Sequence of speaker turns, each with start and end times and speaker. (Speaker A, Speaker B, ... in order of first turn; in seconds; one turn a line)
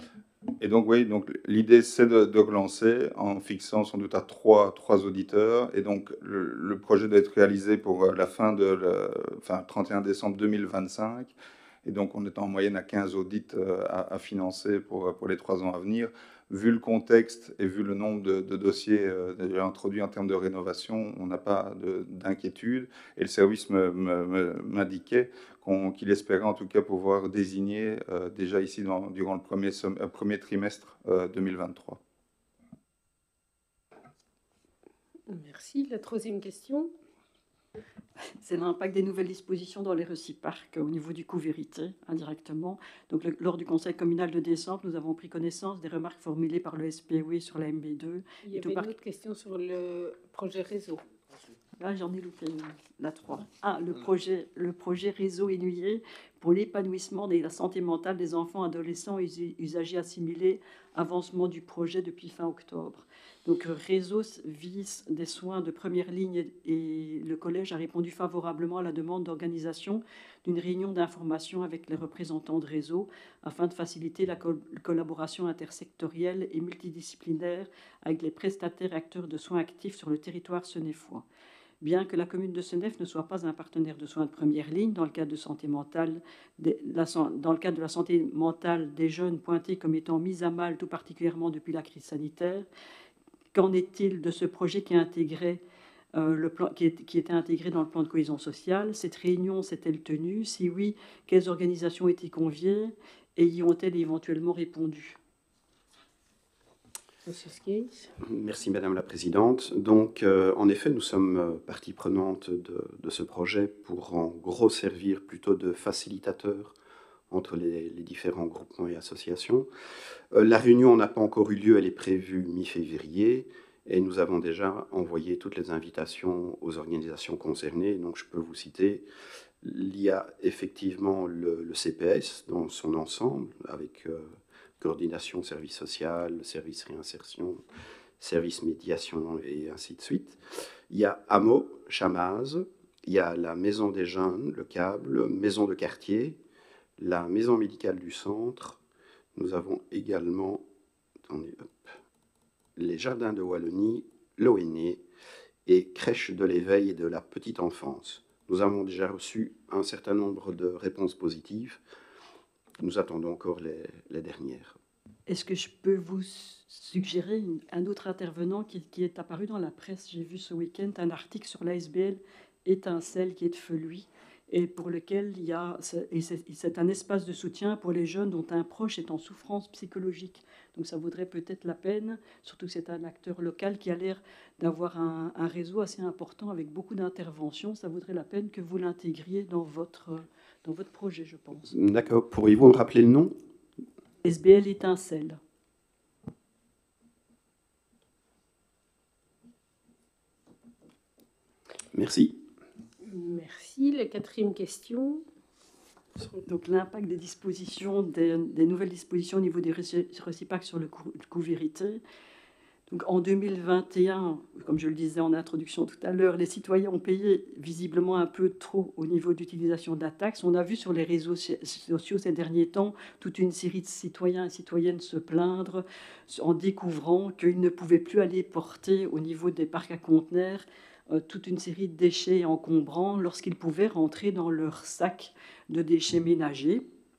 Speaker A: 0.6-32.0
Speaker B: 35.3-36.9
Speaker C: 38.4-49.0
Speaker B: 48.4-51.0
Speaker C: 51.8-81.2
Speaker C: 81.8-92.7
Speaker C: 93.5-95.6
Speaker C: 96.2-105.2
Speaker B: 107.3-108.1
Speaker D: 108.2-116.8
Speaker D: 117.3-119.7
Speaker D: 120.3-129.1
Speaker D: 129.6-134.3
Speaker D: 134.8-137.6
Speaker D: 138.2-146.4
Speaker D: 147.0-148.8
Speaker D: 149.3-150.7
Speaker D: 151.3-151.7
Speaker D: 152.8-155.0
Speaker D: 155.7-161.8
Speaker D: 162.8-164.8
Speaker C: 165.3-191.7
Speaker D: 191.7-193.3
Speaker C: 194.2-195.4
Speaker D: 201.9-202.4
Speaker B: 203.0-205.2
Speaker C: 206.4-212.0
Speaker C: 212.9-236.9